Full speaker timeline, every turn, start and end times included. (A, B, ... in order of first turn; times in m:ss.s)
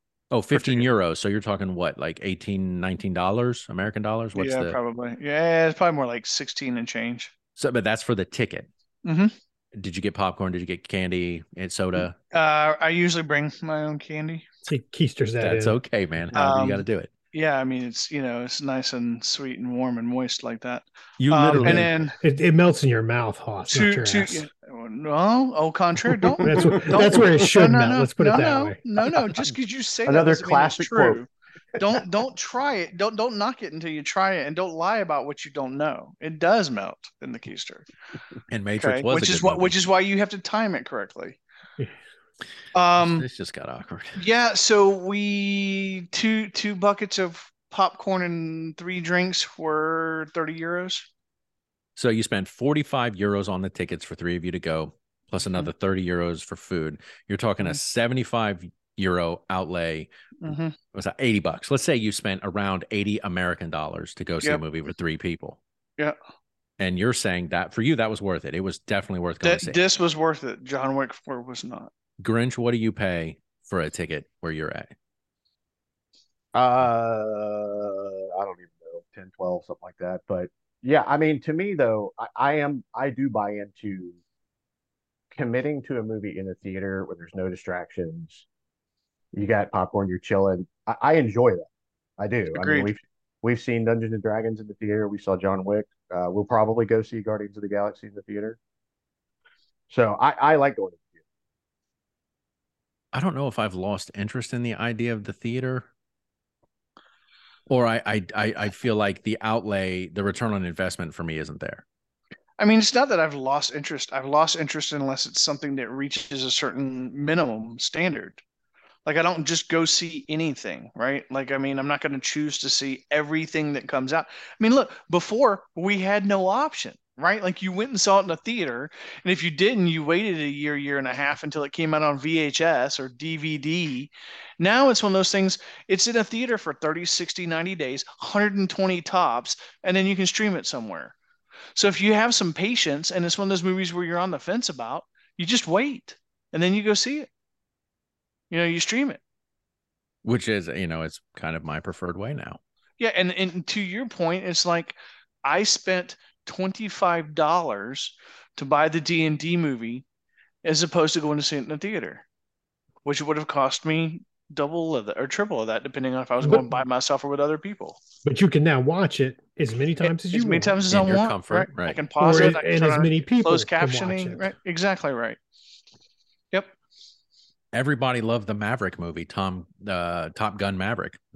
0:00.3-0:04.8 A
0:00.5-0:00.9 B
0:04.3-0:07.3 B
0:07.6-0:08.7 A
0:09.0-0:09.3 B
0:09.7-0:12.1 A
0:12.3-0:14.5 B
0:14.7-0:15.8 C
0:15.4-0:17.1 A
0:16.3-0:22.1 B
0:21.2-0:21.9 A
0:21.6-0:24.4 C
0:23.7-0:37.9 B
0:26.2-0:26.7 D
0:26.4-0:28.8 C
0:30.1-0:31.2 D
0:38.5-0:39.8 A
0:38.8-0:41.4 B
0:42.7-0:43.3 B
0:43.0-0:44.2 A
0:44.2-0:51.1 B
0:52.0-1:00.1 A
1:00.4-1:00.8 B
1:00.9-1:05.6 A
1:06.8-1:09.8 A
1:09.4-1:11.9 B
1:12.2-1:14.9 A
1:16.5-1:24.2 D
1:25.3-1:28.4 D
1:29.3-1:38.6 D
1:32.5-1:32.9 B
1:39.9-1:41.2 D
1:43.1-1:45.9 A
1:47.7-1:51.8 A
1:52.6-1:58.4 B
1:59.1-2:21.1 B
2:21.8-2:27.3 B
2:28.5-2:29.2 B
2:30.2-2:32.6 A
2:33.0-2:40.0 B
2:40.6-2:42.2 B
2:43.0-2:48.0 B
2:46.4-2:46.8 C
2:48.2-2:50.8 C
2:50.0-2:55.4 B
2:50.9-2:52.0 A
2:52.2-2:54.5 C
2:57.7-3:01.2 A